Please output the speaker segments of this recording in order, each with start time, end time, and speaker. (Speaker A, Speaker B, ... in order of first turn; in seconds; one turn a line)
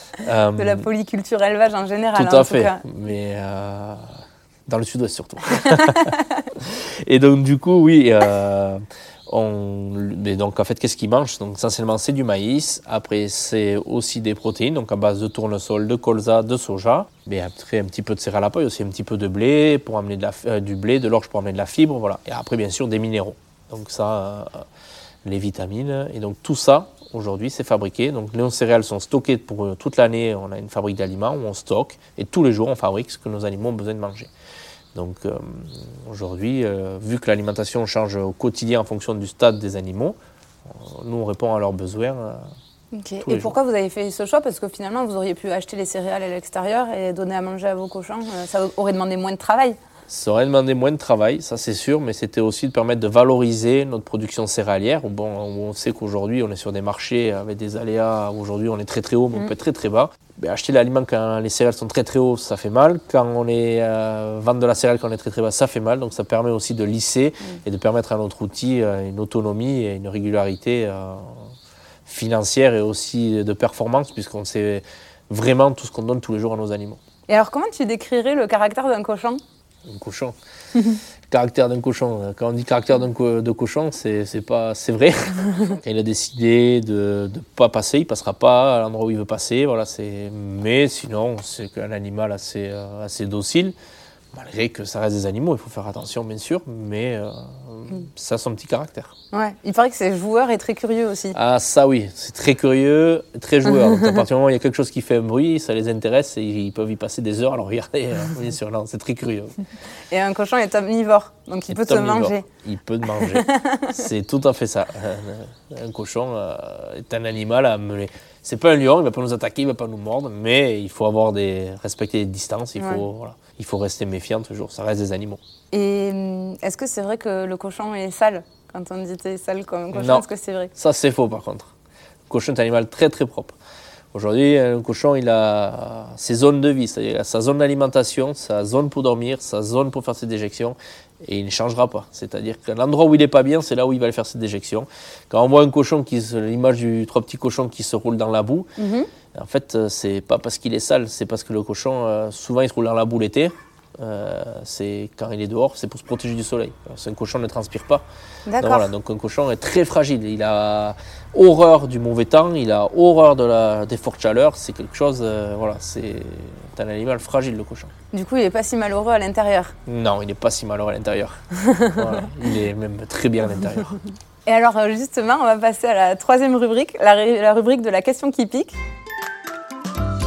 Speaker A: 0.2-0.9
Speaker B: 0.6-2.8
Speaker A: 2.1-24.6
Speaker B: 5.6-6.2
Speaker A: 25.2-34.3
Speaker A: 34.9-42.5
Speaker B: 42.9-49.8
Speaker A: 43.2-43.5
Speaker A: 50.1-71.5
Speaker A: 72.0-77.0
Speaker B: 77.3-79.4
Speaker A: 79.8-80.3
Speaker B: 80.7-81.0
Speaker A: 81.3-93.7
Speaker A: 94.3-99.1
Speaker B: 99.3-101.3
Speaker A: 101.3-109.5
Speaker B: 103.8-104.2
Speaker B: 110.1-112.5
Speaker A: 111.7-125.4
Speaker B: 113.0-114.0
Speaker B: 122.8-123.0
Speaker B: 125.7-130.7
Speaker A: 129.9-131.7
Speaker A: 132.3-133.6
Speaker A: 134.1-148.7
Speaker B: 148.8-149.1
Speaker A: 149.3-158.0
Speaker B: 158.5-158.9
Speaker A: 158.6-167.9
Speaker B: 168.1-169.7
Speaker A: 169.8-174.0
Speaker B: 171.5-172.2
Speaker B: 174.4-178.8